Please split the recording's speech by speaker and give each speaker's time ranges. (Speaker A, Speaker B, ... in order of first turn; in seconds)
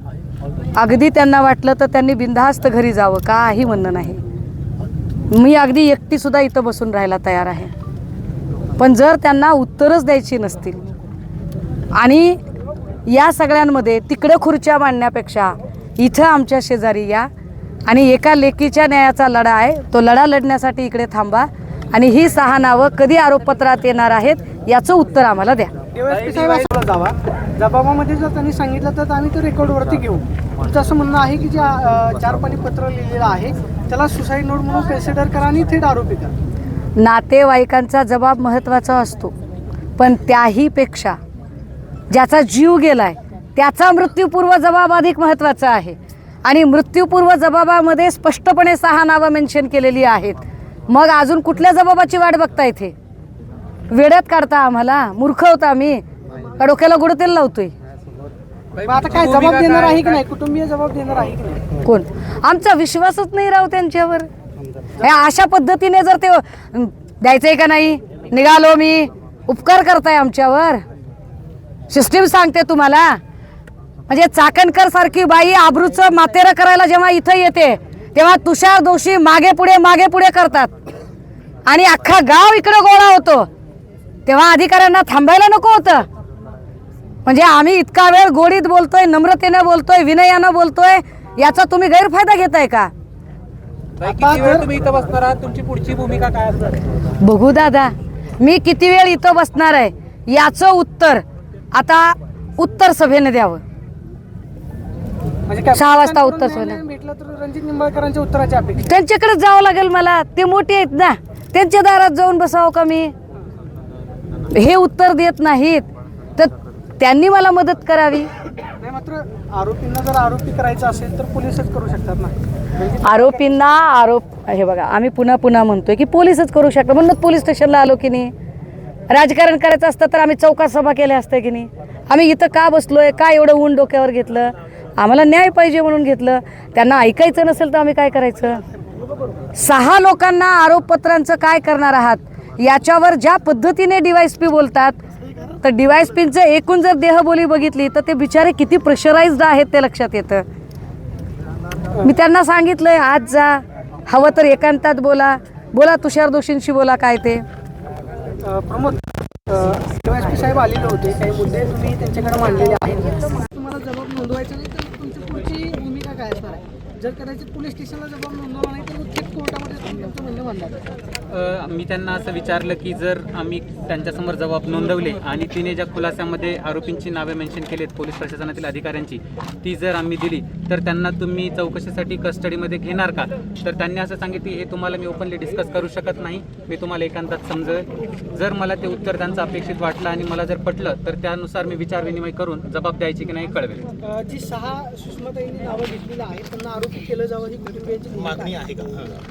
Speaker A: 0.8-4.2, 5.3-7.7, 8.8-10.8, 11.9-12.4, 13.1-17.3, 17.9-25.7, 37.0-39.3, 40.0-41.2, 42.1-52.9, 53.9-56.0, 56.6-57.7, 61.8-64.3, 65.0-70.8, 71.9-73.2, 74.1-80.7, 81.7-83.5, 84.3-86.0, 87.3-92.9, 97.2-103.6, 105.7-106.8, 108.8-113.1, 114.5-118.3, 123.0-128.3, 129.1-138.6, 139.5-145.0, 145.6-150.4, 152.0-157.4
Speaker B: 25.9-36.3, 58.8-61.6, 94.1-94.7, 105.5-108.9, 118.8-123.2, 158.4-170.8, 194.0-199.0
Speaker C: 26.2-26.6, 58.8-60.1, 94.0-96.8
Speaker D: 171.3-193.9